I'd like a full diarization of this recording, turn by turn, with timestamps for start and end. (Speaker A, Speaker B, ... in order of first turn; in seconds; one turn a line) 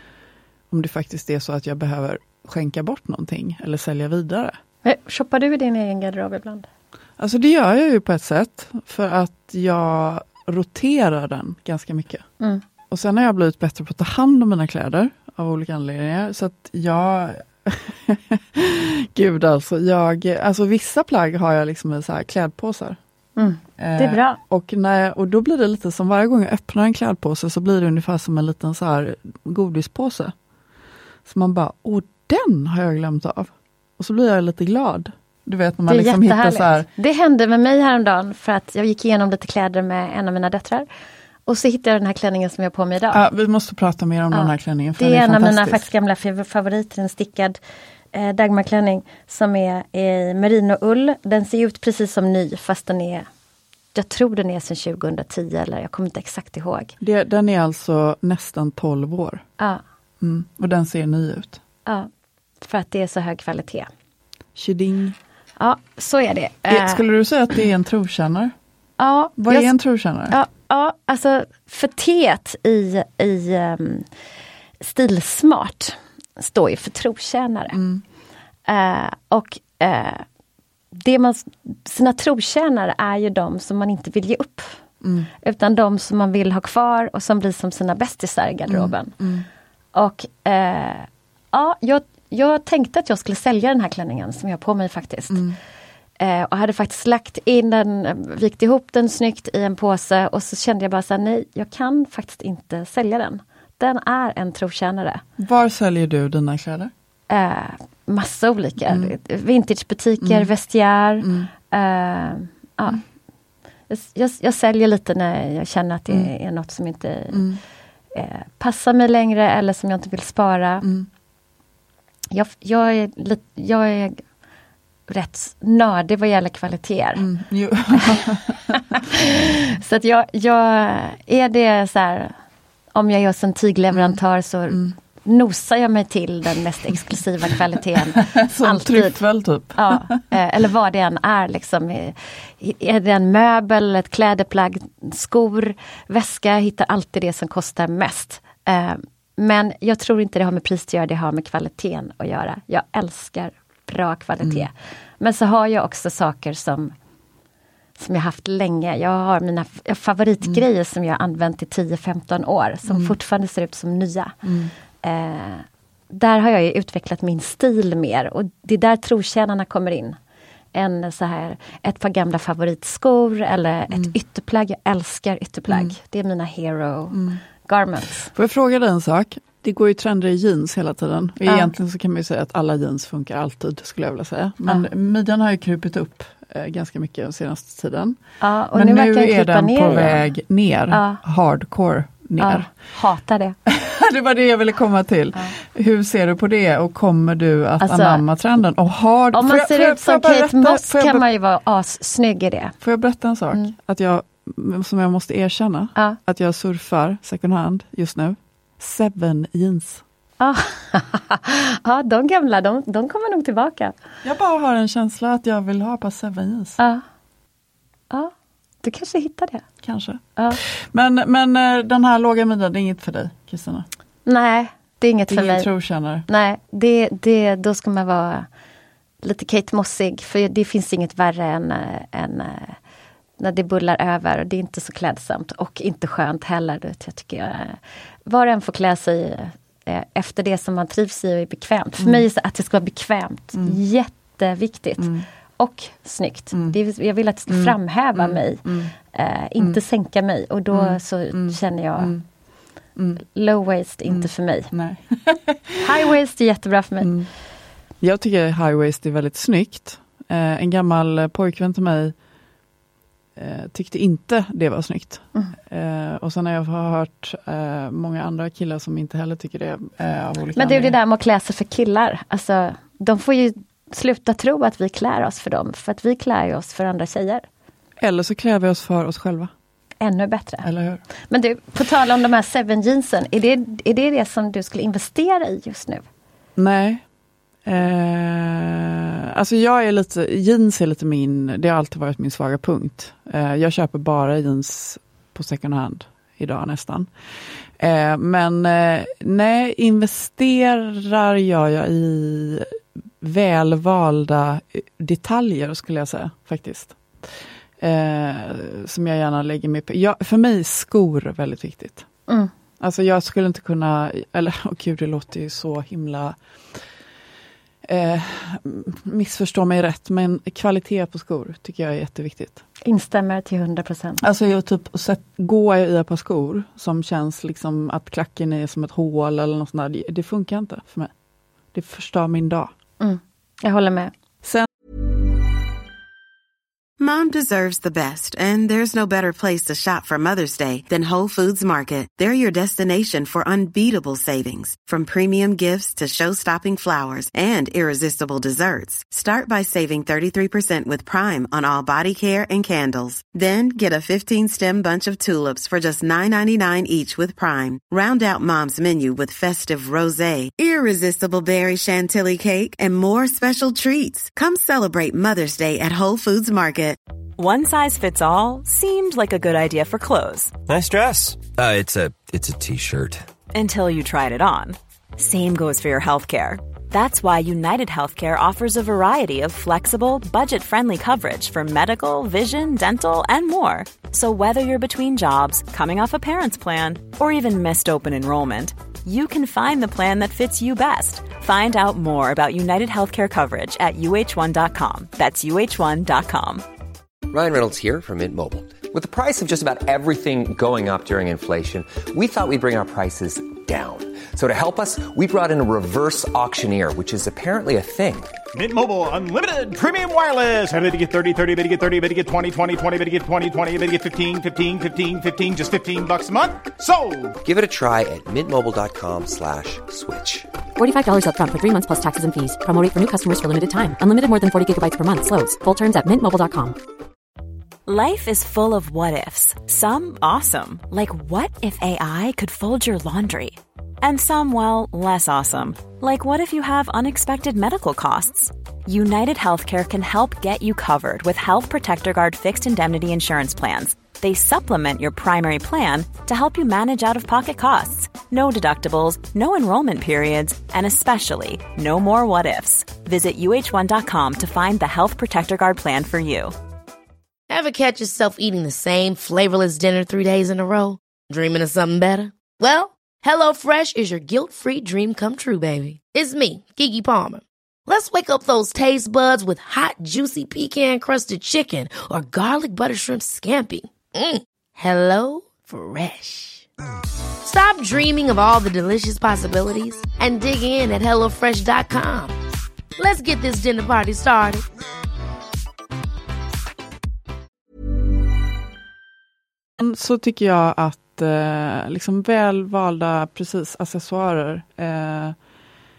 Speaker A: 0.7-4.6
Speaker B: 4.8-6.7
Speaker A: 7.2-12.2
Speaker A: 12.9-23.0
Speaker B: 23.4-24.4
Speaker A: 23.8-30.3
Speaker A: 31.3-36.9
Speaker B: 35.9-40.9
Speaker B: 41.5-43.2
Speaker A: 43.1-45.8
Speaker B: 44.3-47.6
Speaker B: 48.1-53.3
Speaker B: 53.9-57.0
Speaker A: 57.0-59.4
Speaker A: 60.2-61.6
Speaker B: 62.6-63.9
Speaker A: 64.5-65.2
Speaker B: 65.6-67.0
Speaker A: 66.7-68.5
Speaker B: 69.0-69.7
Speaker A: 69.4-70.4
Speaker B: 70.3-74.1
Speaker B: 74.8-77.8
Speaker A: 77.7-78.0
Speaker B: 78.7-80.2
Speaker B: 80.9-84.8
Speaker A: 85.0-85.3
Speaker B: 85.4-89.2
Speaker A: 88.7-89.5
Speaker B: 90.0-95.4
Speaker A: 95.3-95.6
Speaker B: 96.2-105.2
Speaker A: 105.4-106.9
Speaker B: 107.3-113.0
Speaker A: 108.9-109.2
Speaker A: 110.2-110.5
Speaker A: 111.2-111.5
Speaker B: 113.9-117.5
Speaker A: 117.3-117.6
Speaker B: 118.1-120.9
Speaker A: 120.8-121.1
Speaker B: 122.3-124.2
Speaker B: 125.1-127.3
Speaker A: 127.2-128.8
Speaker B: 127.9-128.2
Speaker B: 128.9-132.3
Speaker B: 132.9-139.2
Speaker A: 138.2-140.3
Speaker B: 139.8-156.9
Speaker A: 154.4-154.7
Speaker B: 158.0-164.4
Speaker A: 162.9-163.2
Speaker A: 164.4-164.7
Speaker B: 165.0-170.2
Speaker B: 170.7-178.3
Speaker A: 173.9-174.2
Speaker A: 175.7-175.9
Speaker A: 177.1-177.4
Speaker A: 178.3-188.2
Speaker B: 181.5-181.7
Speaker B: 188.4-190.2
Speaker A: 188.8-192.7
Speaker B: 190.9-191.2
Speaker B: 192.4-193.6
Speaker A: 193.7-201.2
Speaker B: 197.8-198.2
Speaker B: 199.3-202.8
Speaker A: 202.8-210.0
Speaker B: 210.4-214.0
Speaker A: 214.2-216.8
Speaker B: 218.1-219.7
Speaker A: 219.8-223.9
Speaker B: 224.3-225.7
Speaker A: 225.3-226.3
Speaker B: 226.3-228.5
Speaker B: 229.2-232.8
Speaker B: 233.4-252.1
Speaker A: 242.0-242.2
Speaker A: 243.5-243.8
Speaker A: 245.0-245.2
Speaker A: 246.5-246.8
Speaker A: 247.5-248.9
Speaker A: 250.7-252.2
Speaker A: 253.0-253.2
Speaker B: 253.3-254.7
Speaker A: 254.1-256.1
Speaker B: 255.8-257.2
Speaker A: 257.0-257.3
Speaker A: 258.0-262.1
Speaker A: 263.4-271.0
Speaker B: 270.6-277.4
Speaker A: 278.0-279.5
Speaker B: 280.0-280.7
Speaker A: 280.6-281.0
Speaker B: 281.3-286.1
Speaker A: 286.6-287.0
Speaker A: 287.6-297.1
Speaker A: 297.8-312.1
Speaker A: 312.8-316.4
Speaker A: 317.9-322.6
Speaker B: 322.9-324.2
Speaker A: 324.2-331.1
Speaker A: 331.7-332.7
Speaker B: 333.0-334.1
Speaker C: 337.0-367.0
Speaker D: 367.4-370.5
Speaker E: 370.7-373.2
Speaker D: 373.5-396.6
Speaker F: 397.3-408.3
Speaker G: 408.5-417.4
Speaker F: 417.4-420.5
Speaker H: 420.8-426.8
Speaker D: 427.9-456.5
Speaker I: 457.5-476.7
Speaker I: 477.4-482.4
Speaker I: 483.0-484.6
Speaker A: 489.8-495.4